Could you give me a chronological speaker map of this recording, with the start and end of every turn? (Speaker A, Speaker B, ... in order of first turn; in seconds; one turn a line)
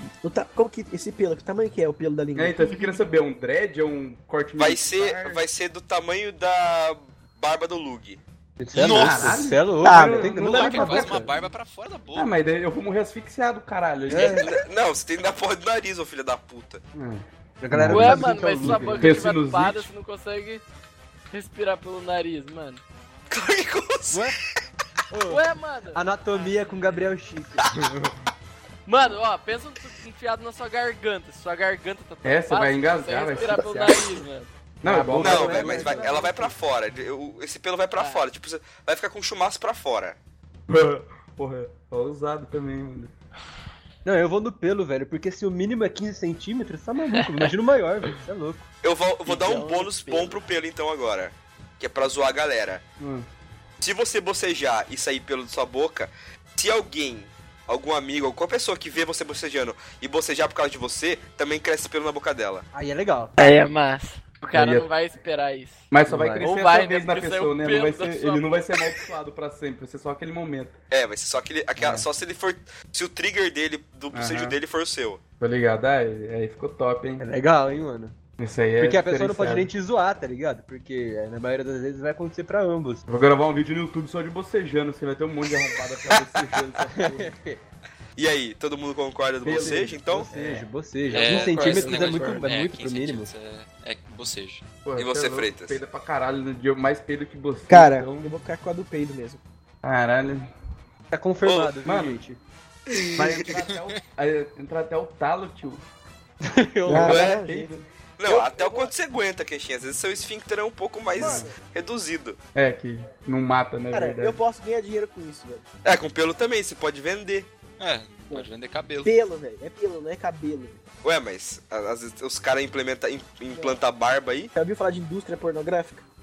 Speaker A: 0.2-2.9
Speaker B: 2.3-5.4
Speaker C: 4.6-8.2
Speaker D: 8.6-11.3
Speaker E: 8.7-9.4
Speaker B: 8.8-11.5
Speaker A: 9.8-10.4
Speaker E: 10.4-12.3
Speaker B: 12.1-14.6
Speaker D: 14.1-14.4
Speaker C: 14.4-16.8
Speaker B: 16.9-19.9
Speaker D: 17.6-19.2
Speaker F: 17.9-20.6
Speaker F: 21.3-22.8
Speaker C: 23.3-24.4
Speaker D: 24.1-24.4
Speaker D: 25.1-27.6
Speaker F: 25.3-27.1
Speaker B: 27.8-28.1
Speaker F: 28.9-34.5
Speaker B: 32.2-34.2
Speaker B: 34.8-36.2
Speaker D: 34.8-36.5
Speaker C: 35.1-40.2
Speaker F: 38.0-38.2
Speaker B: 40.7-43.1
Speaker D: 44.0-48.7
Speaker C: 48.8-52.8
Speaker F: 49.2-50.4
Speaker B: 53.0-53.3
Speaker C: 53.8-62.6
Speaker D: 62.7-63.3
Speaker F: 63.4-65.9
Speaker B: 64.5-64.9
Speaker B: 65.9-70.8
Speaker D: 66.1-66.5
Speaker F: 66.4-68.6
Speaker C: 70.9-75.2
Speaker B: 71.8-72.1
Speaker B: 74.1-74.6
Speaker B: 75.4-77.2
Speaker D: 77.2-78.1
Speaker B: 78.4-79.7
Speaker D: 78.8-83.0
Speaker B: 83.1-87.4
Speaker D: 86.9-87.6
Speaker C: 88.2-90.3
Speaker B: 89.4-92.4
Speaker D: 90.3-93.3
Speaker E: 91.1-94.7
Speaker B: 94.8-98.3
Speaker C: 95.0-95.8
Speaker A: 97.7-99.4
Speaker B: 99.8-100.5
Speaker D: 101.1-102.4
Speaker C: 101.4-101.8
Speaker B: 101.8-102.2
Speaker C: 102.9-103.5
Speaker B: 103.2-105.8
Speaker E: 103.7-104.0
Speaker D: 106.4-107.3
Speaker B: 106.9-107.9
Speaker A: 106.9-107.7
Speaker C: 107.1-107.4
Speaker C: 108.2-112.4
Speaker A: 108.2-108.9
Speaker B: 111.2-111.5
Speaker A: 111.2-111.6
Speaker B: 112.5-114.4
Speaker A: 113.9-115.7
Speaker C: 115.8-117.5
Speaker E: 117.8-119.1
Speaker A: 119.0-120.8
Speaker C: 121.0-124.5
Speaker A: 123.5-123.8
Speaker A: 124.5-126.0